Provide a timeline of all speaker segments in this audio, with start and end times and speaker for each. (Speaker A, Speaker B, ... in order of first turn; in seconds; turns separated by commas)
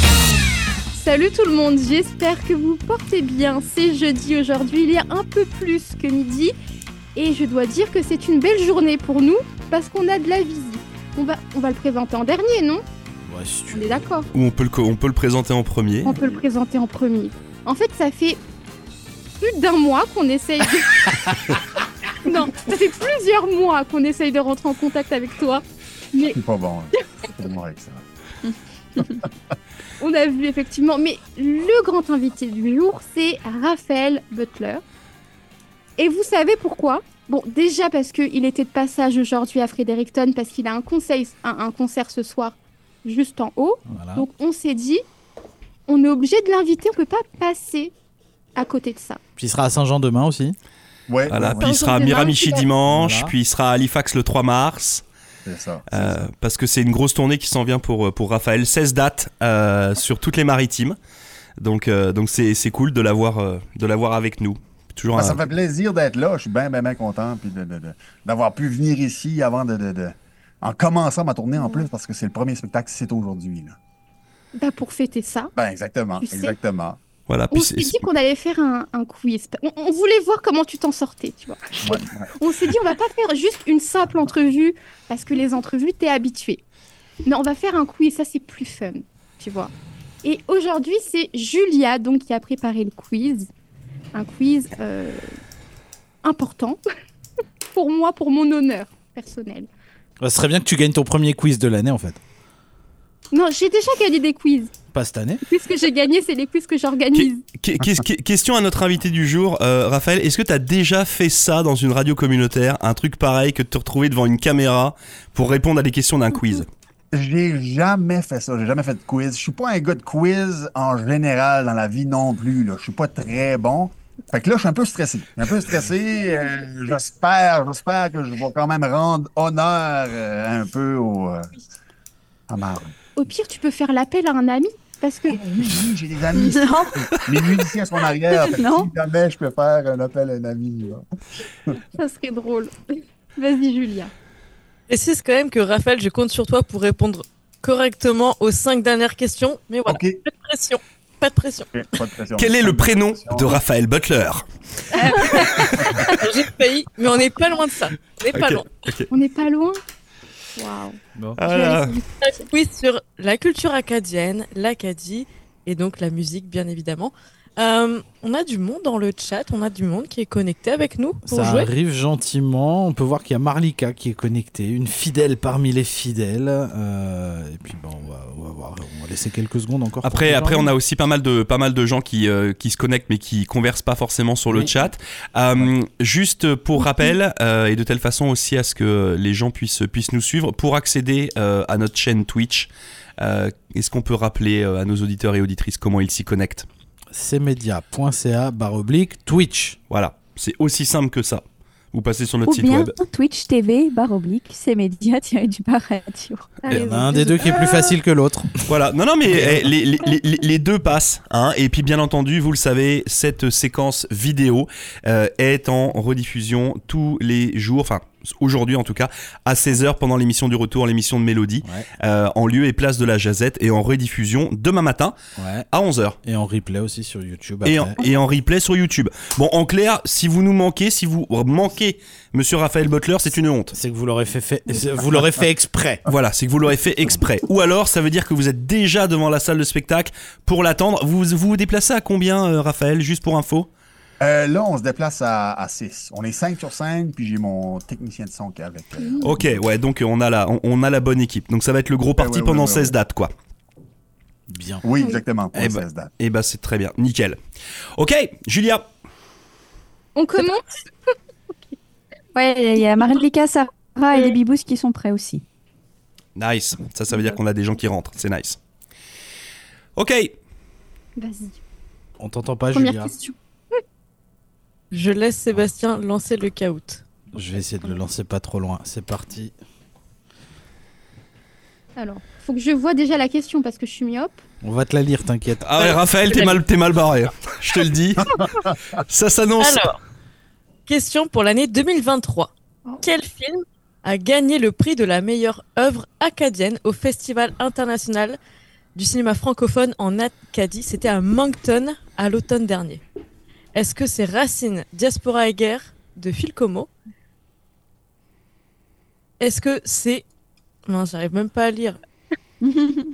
Speaker A: 0.9-6.5, Speaker A: 7.1-12.8, Speaker B: 13.2-14.0, Speaker A: 13.7-14.3, Speaker C: 14.3-16.2, Speaker A: 16.0-18.4, Speaker A: 19.4-21.2, Speaker A: 22.2-25.6, Speaker A: 26.1-26.4, Speaker D: 26.3-28.0, Speaker D: 29.0-29.2, Speaker A: 30.0-34.8, Speaker A: 36.0-45.0, Speaker B: 43.9-44.3, Speaker A: 45.9-47.9, Speaker A: 48.5-49.2, Speaker B: 49.4-50.5, Speaker D: 51.1-51.8, Speaker C: 51.3-55.0, Speaker A: 51.6-52.7, Speaker B: 52.9-53.3, Speaker D: 55.5-56.2, Speaker C: 55.9-61.0, Speaker C: 61.6-65.4, Speaker D: 65.1-73.8, Speaker A: 71.6-71.9, Speaker A: 74.5-75.5, Speaker D: 75.5-77.0, Speaker A: 76.2-76.6, Speaker C: 77.3-78.0, Speaker A: 77.5-86.6, Speaker D: 81.8-82.3, Speaker A: 87.2-89.7, Speaker A: 90.2-93.5, Speaker A: 94.1-95.2, Speaker A: 96.2-96.8, Speaker A: 97.7-99.7, Speaker B: 100.2-102.2, Speaker A: 103.3-104.7, Speaker B: 104.9-105.4, Speaker A: 105.5-107.4, Speaker C: 107.1-116.7, Speaker D: 117.1-131.5, Speaker D: 132.5-132.9, Speaker A: 133.2-135.4, Speaker D: 135.3-141.1, Speaker E: 136.3-137.1, Speaker E: 138.4-138.9, Speaker A: 141.9-144.1, Speaker F: 144.9-151.7, Speaker D: 149.9-150.2, Speaker D: 151.7-153.6, Speaker C: 152.4-154.4, Speaker E: 155.1-155.7, Speaker C: 155.3-155.6, Speaker D: 155.8-156.1, Speaker F: 156.1-158.7, Speaker C: 158.3-159.1, Speaker A: 159.1-159.8, Speaker A: 160.6-162.4, Speaker C: 161.4-161.9, Speaker F: 162.2-171.7, Speaker B: 171.3-180.7, Speaker C: 180.0-196.7, Speaker B: 184.5-184.8, Speaker B: 197.1-199.8, Speaker C: 199.9-202.9, Speaker E: 202.4-206.6, Speaker A: 206.6-207.9, Speaker B: 206.7-208.7, Speaker C: 208.7-225.2, Speaker B: 209.3-209.7, Speaker B: 225.4-225.7, Speaker C: 225.7-226.2, Speaker B: 226.2-227.9, Speaker C: 227.6-233.7, Speaker B: 233.7-236.0, Speaker C: 236.1-243.7, Speaker D: 244.2-249.6, Speaker A: 249.0-249.3, Speaker C: 249.2-253.3, Speaker D: 252.2-252.9, Speaker B: 254.5-254.8, Speaker D: 254.8-256.1, Speaker A: 254.9-255.2, Speaker C: 255.5-257.4, Speaker C: 257.9-258.9, Speaker A: 260.1-260.7, Speaker E: 262.3-265.4, Speaker C: 266.4-268.6, Speaker C: 269.9-270.3, Speaker A: 271.2-271.6, Speaker B: 272.2-273.1, Speaker A: 272.7-273.3, Speaker F: 274.9-277.0, Speaker B: 277.3-279.5, Speaker A: 282.0-284.4, Speaker B: 284.6-285.7, Speaker C: 285.6-288.4, Speaker F: 285.8-286.6, Speaker D: 288.2-288.8, Speaker C: 289.0-289.8, Speaker F: 289.6-290.0, Speaker F: 290.9-292.5, Speaker F: 293.0-298.4, Speaker F: 298.9-303.0, Speaker F: 303.7-306.9, Speaker F: 309.4-310.2, Speaker F: 310.9-312.0, Speaker E: 312.6-313.0